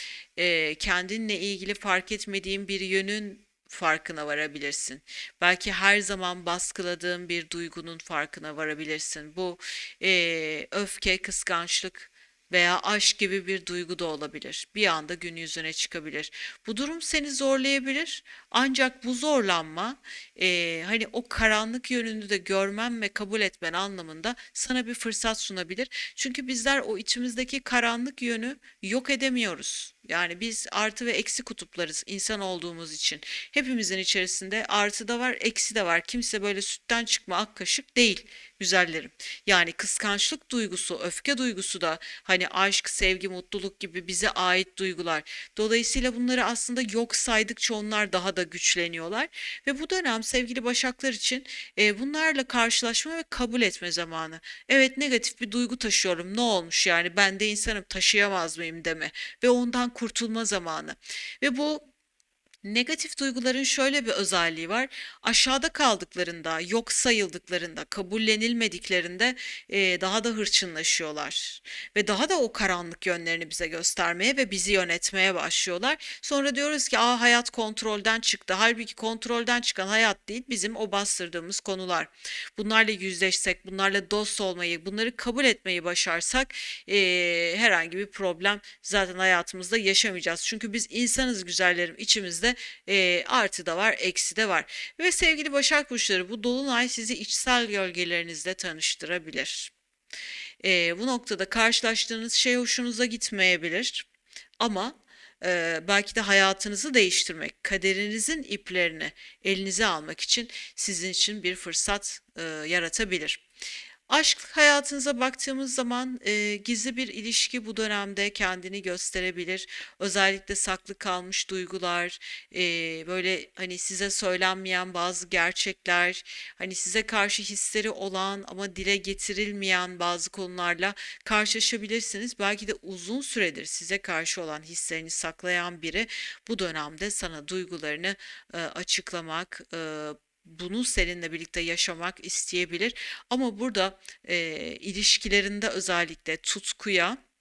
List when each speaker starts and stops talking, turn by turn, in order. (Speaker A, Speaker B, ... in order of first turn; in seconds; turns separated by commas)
Speaker A: 0.4-61.9, Speaker A: 62.6-99.7, Speaker A: 100.6-104.1, Speaker A: 104.6-113.4, Speaker A: 114.1-147.2